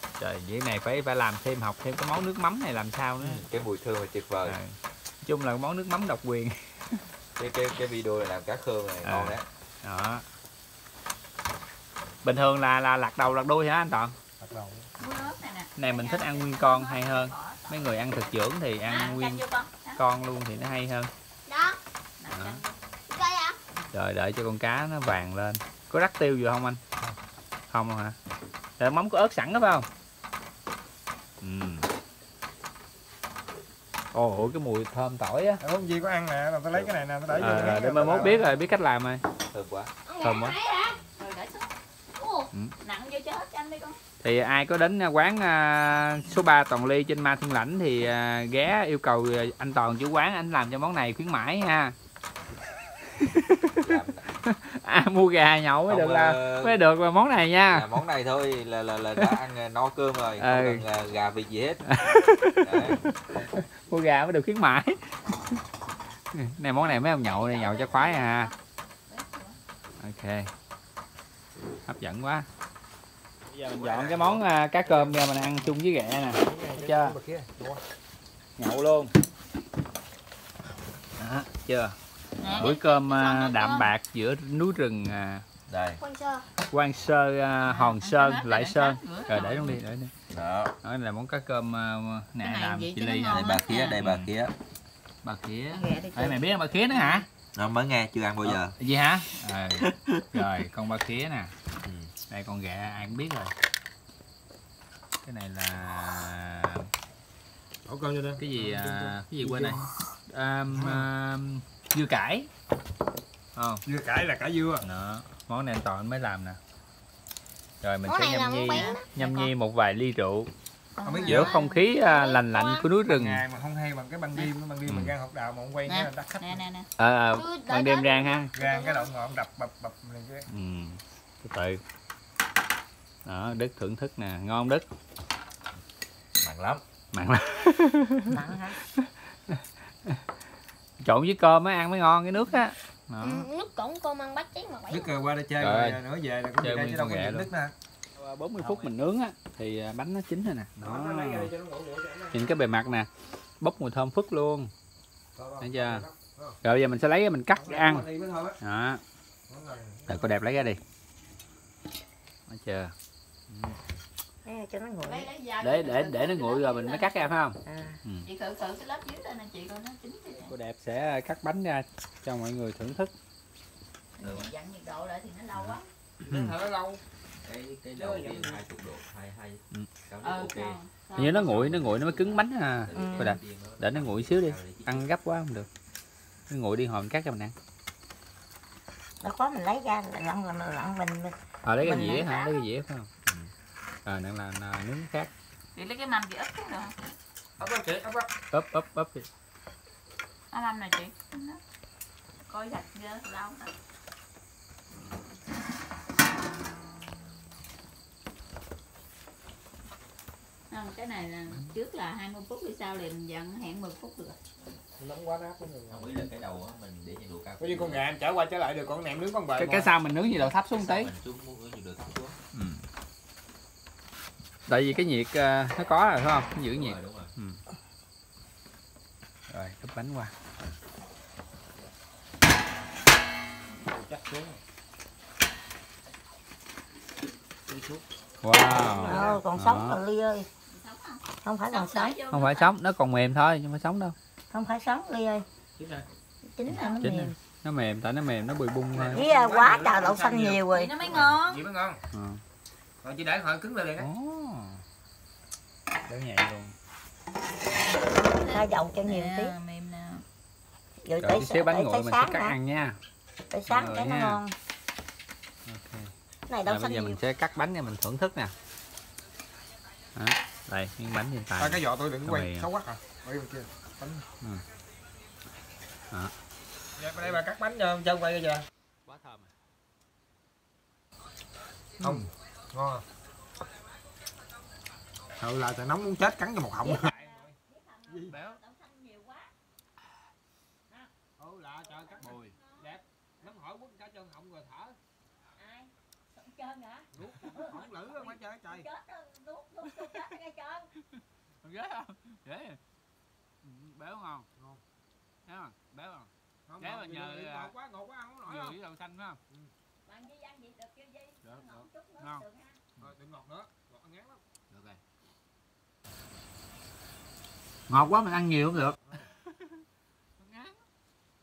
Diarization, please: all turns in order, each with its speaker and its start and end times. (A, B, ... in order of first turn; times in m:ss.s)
0:00.2-0:03.5 A
0:03.2-0:04.6 B
0:04.4-0:07.0 A
0:07.4-0:09.5 B
0:09.0-0:10.2 A
0:12.2-0:14.2 A
0:14.4-0:14.9 C
0:15.0-0:18.3 D
0:15.8-0:19.4 A
0:18.8-0:20.0 D
0:20.0-0:21.1 A
0:21.5-0:21.8 E
0:22.2-0:22.7 D
0:22.3-0:22.6 A
0:23.1-0:23.6 E
0:23.9-0:26.8 A
0:27.7-0:28.2 A
0:28.8-0:29.9 A
0:31.4-0:31.9 A
0:34.1-0:35.6 A
0:35.6-0:38.4 C
0:37.4-0:39.2 A
0:39.5-0:39.9 B
0:40.1-0:41.0 E
0:40.2-0:40.6 A
0:41.2-0:44.0 D
0:42.2-0:42.5 E
0:44.2-0:52.0 A
0:53.1-0:58.0 A
0:53.8-0:54.3 B
0:55.9-0:56.8 B
0:57.7-1:01.9 B
1:00.4-1:00.8 A
1:01.8-1:05.0 A
1:02.6-1:03.0 B
1:06.3-1:08.5 A
1:06.8-1:08.5 D
1:09.1-1:09.6 D
1:10.0-1:10.5 A
1:11.9-1:12.5 A
1:13.5-1:17.2 A
1:13.7-1:14.4 B
1:14.8-1:17.8 C
1:18.6-1:19.1 A
1:21.2-1:22.0 A
1:22.4-1:23.9 D
1:22.4-1:22.8 B
1:22.5-1:25.4 A
1:25.7-1:26.0 B
1:26.0-1:26.4 E
1:26.7-1:30.1 A
1:27.6-1:29.8 D
1:30.3-1:30.7 B
1:30.8-1:34.3 A
1:32.4-1:34.0 D
1:33.3-1:34.5 B
1:35.2-1:37.3 A
1:35.7-1:36.4 D
1:37.5-1:38.8 B
1:38.4-1:41.5 A
1:39.8-1:40.2 B
1:41.8-1:42.1 B
1:42.3-1:43.5 A
1:45.2-1:46.9 A
1:47.8-1:49.9 C
1:48.4-1:52.5 A
1:50.7-1:51.1 C
1:53.6-1:53.8 A
1:53.8-1:54.8 C
1:54.8-1:56.6 A
1:57.8-2:00.5 A
1:58.0-1:59.1 E
1:58.7-1:59.5 D
2:01.0-2:01.8 D
2:01.0-2:01.6 C
2:01.2-2:03.4 A
2:01.9-2:02.9 E
2:03.0-2:06.6 C
2:04.8-2:05.1 A
2:05.8-2:06.9 D
2:07.0-2:08.5 A
2:07.3-2:09.1 E
2:08.6-2:10.5 C
2:10.5-2:11.8 A
2:13.2-2:14.9 A
2:16.4-2:16.8 B
2:17.1-2:20.2 A
2:18.3-2:18.8 F
2:21.0-2:23.5 A
2:23.2-2:25.1 E
2:24.9-2:27.7 C
2:25.6-2:26.0 A
2:26.6-2:27.5 A
2:28.2-2:31.5 A
2:28.6-2:28.9 B
2:30.8-2:32.9 C
2:32.3-2:33.1 A
2:33.6-2:34.7 A
2:35.4-2:36.6 C
2:35.6-2:36.0 A
2:36.6-2:38.1 A
2:37.6-2:38.6 C
2:38.6-2:39.0 A
2:39.5-2:40.4 C
2:40.1-2:40.8 A
2:42.5-2:42.9 A
2:43.5-2:43.8 A
2:44.4-2:45.3 F
2:45.0-2:47.4 D
2:45.6-2:48.3 A
2:47.6-2:48.0 F
2:48.2-2:50.5 D
2:50.4-2:53.1 A
2:54.2-2:55.9 D
2:54.2-2:54.5 B
2:56.2-2:57.0 C
2:57.4-3:05.1 B
2:58.1-2:58.4 F
3:00.2-3:01.5 D
3:01.2-3:05.7 A
3:02.9-3:03.3 F
3:06.5-3:07.6 A
3:09.2-3:12.4 F
3:11.6-3:13.1 A
3:13.2-3:13.5 B
3:14.1-3:15.3 A
3:15.8-3:16.9 D
3:17.6-3:18.3 C
3:18.5-3:19.3 A
3:20.5-3:21.6 D
3:22.5-3:23.7 D
3:30.7-3:34.4 D
3:35.0-3:36.2 C
3:35.9-3:38.0 B
3:37.6-3:39.9 C
3:39.6-3:41.1 A
3:40.4-3:42.4 B
3:42.5-3:42.8 A
3:44.7-3:47.6 A
3:46.7-3:47.3 B
3:49.5-3:50.3 A
3:53.9-3:54.6 C
3:57.7-3:58.0 C
3:58.4-4:00.0 A
3:58.9-4:00.5 F
3:58.9-3:59.4 C
4:00.7-4:02.7 D
4:01.4-4:02.2 F
4:02.3-4:04.2 A
4:04.5-4:05.4 F
4:05.8-4:06.0 C
4:06.5-4:07.4 F
4:06.7-4:09.2 A
4:08.9-4:12.0 C
4:09.1-4:11.0 F
4:10.7-4:11.6 D
4:12.1-4:12.4 A
4:13.0-4:14.1 C
4:14.0-4:14.8 A
4:16.1-4:16.7 A
4:18.1-4:20.2 D
4:18.3-4:19.6 F
4:21.0-4:22.6 F
4:21.2-4:23.0 A
4:23.5-4:24.6 F
4:23.7-4:24.4 A
4:25.7-4:26.1 A
4:26.5-4:27.2 F
4:26.6-4:28.5 A
4:30.2-4:32.7 A
4:31.6-4:34.2 C
4:37.0-4:38.6 C
4:39.1-4:39.5 A
4:42.0-4:42.3 A
4:42.0-4:43.0 C
4:45.4-4:47.6 C
4:46.8-4:49.5 D
4:48.1-4:48.4 C
4:48.3-4:48.6 A
4:51.4-4:55.0 C
4:52.2-4:52.6 A
4:55.6-5:00.9 D
4:57.1-4:58.9 C
4:57.2-4:57.5 A
4:59.8-5:00.3 A
5:01.6-5:02.8 A
5:03.6-5:04.5 A
5:04.6-5:04.8 C
5:05.5-5:07.7 A
5:06.7-5:08.8 C
5:08.4-5:09.4 A
5:10.0-5:12.8 D
5:11.4-5:12.5 A
5:13.0-5:14.4 C
5:14.7-5:15.0 A
5:17.9-5:19.0 A
5:19.0-5:19.3 C
5:20.4-5:20.8 A